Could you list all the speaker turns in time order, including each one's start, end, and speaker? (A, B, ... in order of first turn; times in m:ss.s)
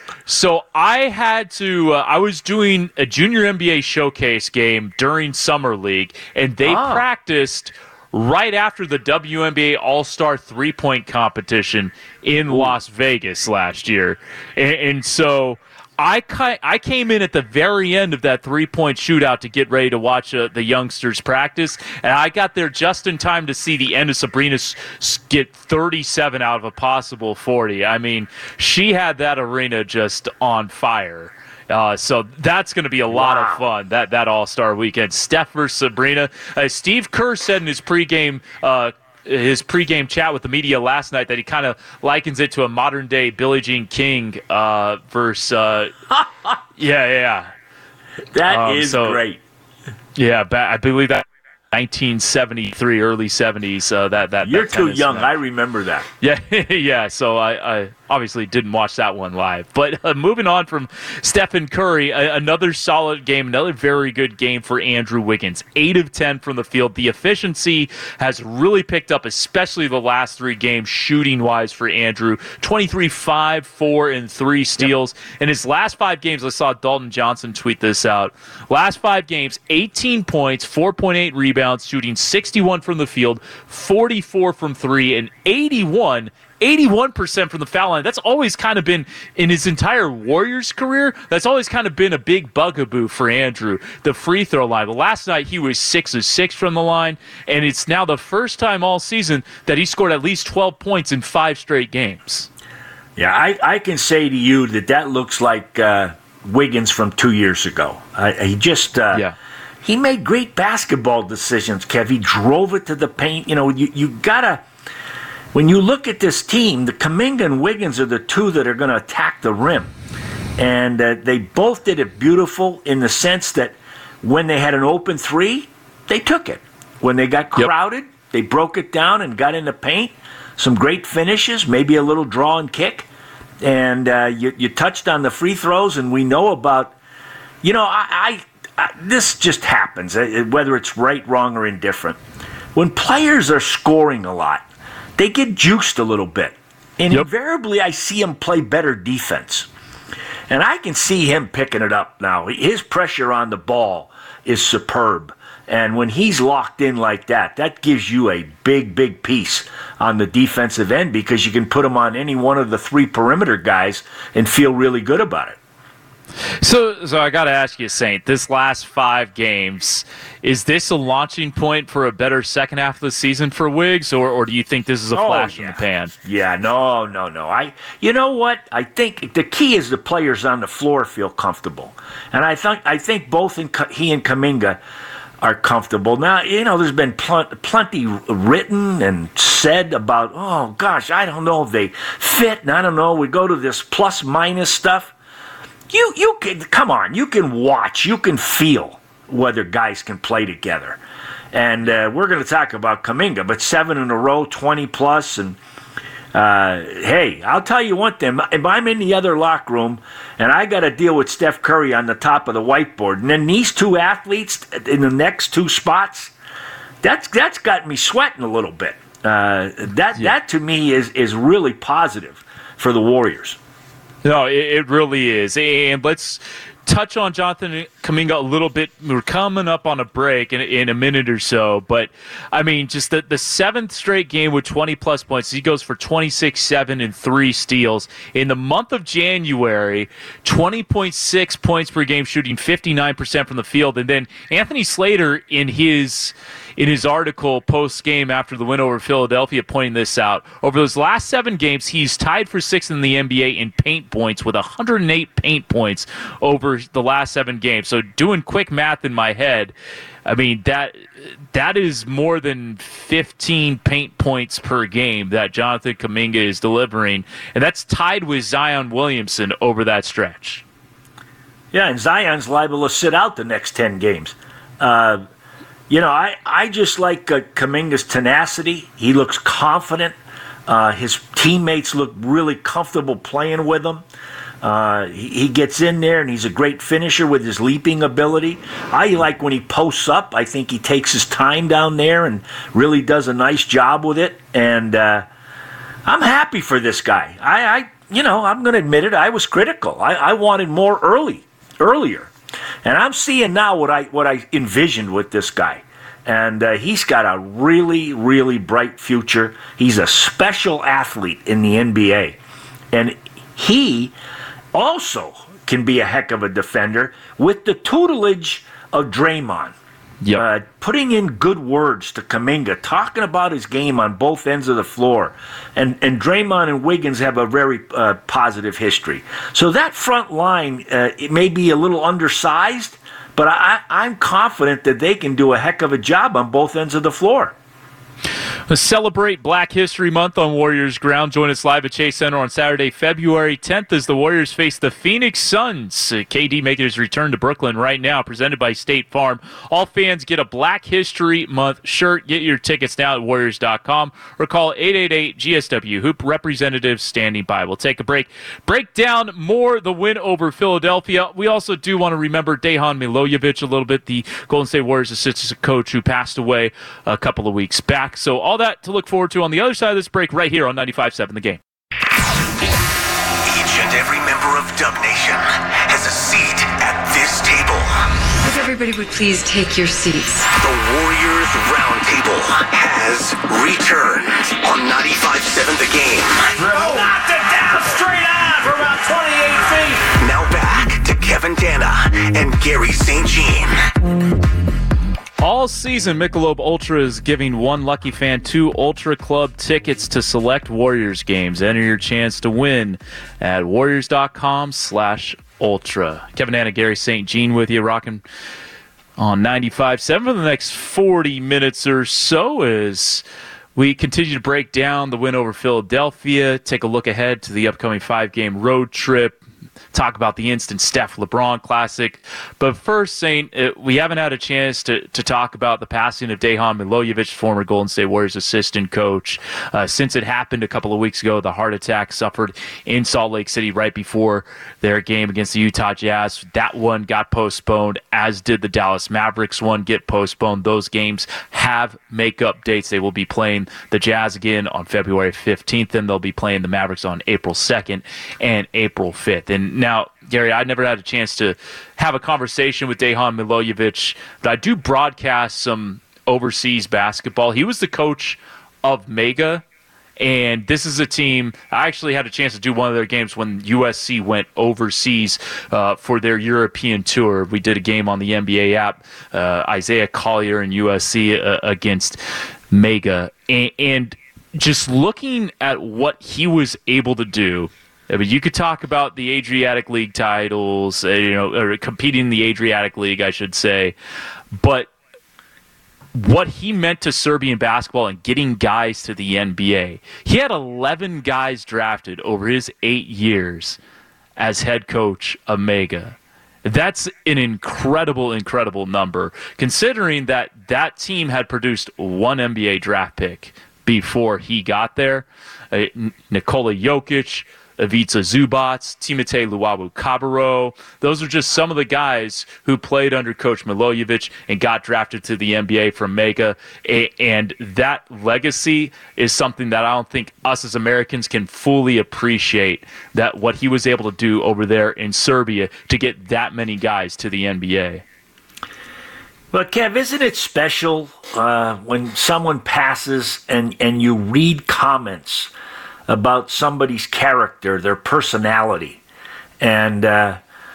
0:00.3-0:45.9 A
0:06.6-0:07.0 B
0:12.5-0:12.7 B
0:33.1-0:33.6 B
0:46.8-0:47.5 A
0:48.3-0:49.4 B
0:48.5-0:49.2 A
0:50.2-0:55.3 A
0:54.4-0:56.1 B
0:56.2-1:42.5 A
1:43.2-1:49.2 B
1:49.8-1:54.6 B
1:55.5-1:59.9 B
2:00.6-2:13.1 B
2:13.6-2:17.0 B
2:17.6-2:22.2 B
2:22.7-2:24.6 B
2:25.2-2:29.7 B
2:30.5-2:45.6 B
2:46.6-2:56.1 A
2:55.1-3:04.8 B
3:05.4-3:15.1 B
3:15.9-3:21.0 B
3:21.5-3:25.6 B
3:26.3-3:36.3 B
3:37.0-3:43.6 B
3:44.2-4:19.7 A
4:20.2-4:21.0 A
4:21.5-4:30.6 A
4:31.7-4:35.2 B
4:35.9-4:40.2 B
4:40.7-4:44.0 B
4:44.6-4:55.2 B
4:56.0-5:02.3 B
5:02.8-5:12.4 B
5:12.9-5:14.1 B
5:14.7-5:19.8 B
5:20.3-5:37.5 B
5:38.7-6:11.6 A
6:13.4-6:17.9 C
6:18.4-6:20.5 D
6:20.5-6:26.6 C
6:26.6-6:30.0 E
6:26.8-6:27.1 B
6:30.1-6:33.8 C
6:35.4-6:48.2 A
6:49.2-6:53.2 A
6:53.8-6:59.4 A
6:59.9-7:39.6 A
7:40.2-7:52.2 A
7:52.7-8:03.9 A
8:04.5-8:04.9 A
8:06.1-8:13.8 A
8:14.4-8:48.0 A
8:49.5-8:55.5 B
8:56.1-8:59.0 B
8:59.6-9:00.4 B